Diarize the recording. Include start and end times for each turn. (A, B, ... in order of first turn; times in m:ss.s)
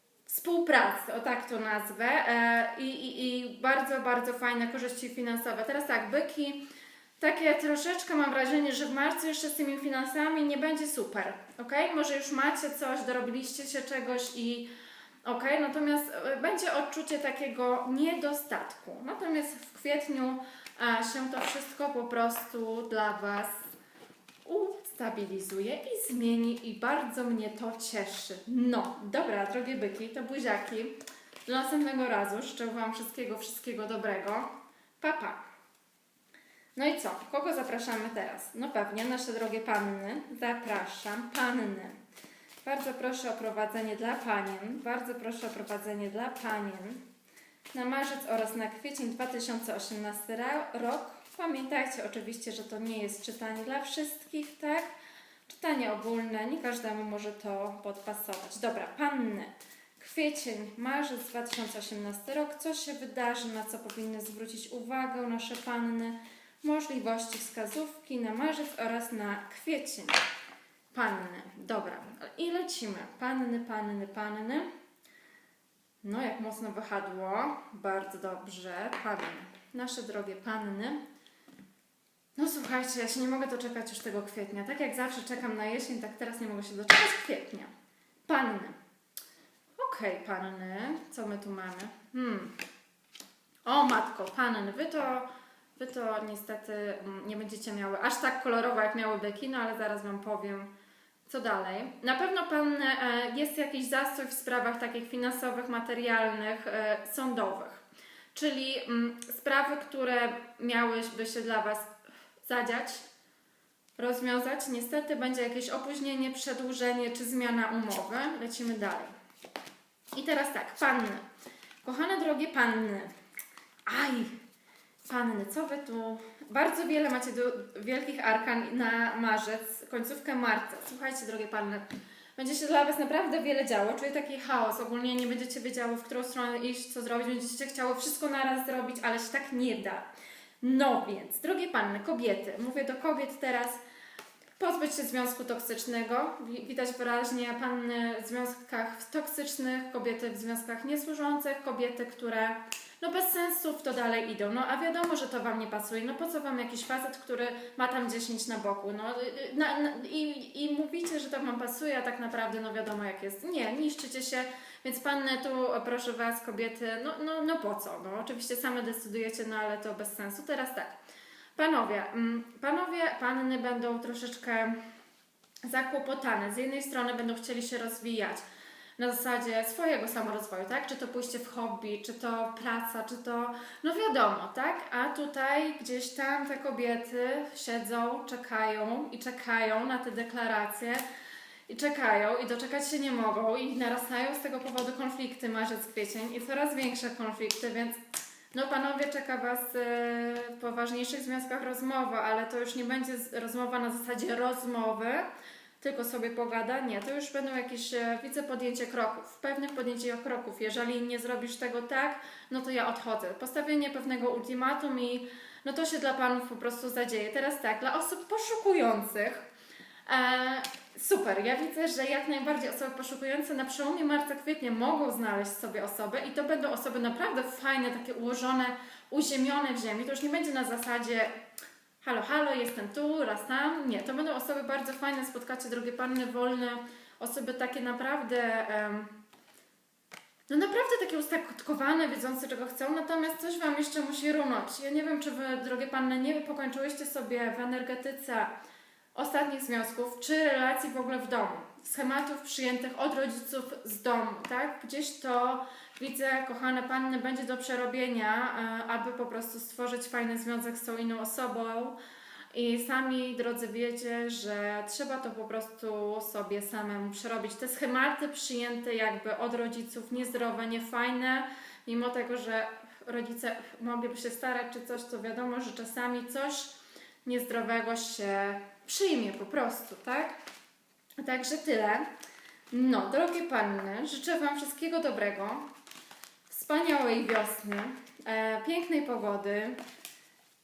0:00.3-0:06.6 A
0:07.2-0:14.7 A
0:15.2-0:23.7 A
0:24.4-0:34.5 A
0:35.0-0:35.4 A
0:36.8-0:42.0 A
0:42.6-0:47.0 A
0:47.7-0:54.9 A
0:55.5-1:10.2 A
1:10.9-1:14.7 A
1:16.0-1:21.0 A
1:22.4-1:27.7 A
1:28.3-1:28.8 A
1:29.8-1:32.6 A
1:33.7-1:40.7 A
1:41.3-1:47.8 A
1:48.4-1:51.9 A
1:52.4-1:53.0 A
1:54.0-1:59.1 A
2:00.1-2:01.2 A
2:01.8-2:03.1 A
2:03.9-2:04.4 A
2:05.0-2:20.1 A
2:20.6-2:23.8 A
2:24.6-2:50.9 A
2:51.6-2:54.8 A
2:55.6-2:58.4 A
2:59.0-3:11.0 A
3:11.7-3:18.0 A
3:18.5-3:25.3 A
3:25.8-3:39.5 A
3:40.1-3:51.3 A
3:52.0-3:59.2 A
4:00.5-4:08.5 A
4:09.2-4:22.0 A
4:22.5-4:36.7 A
4:37.2-4:40.3 A
4:41.2-4:42.1 A
4:42.7-4:45.6 A
4:46.5-4:49.8 A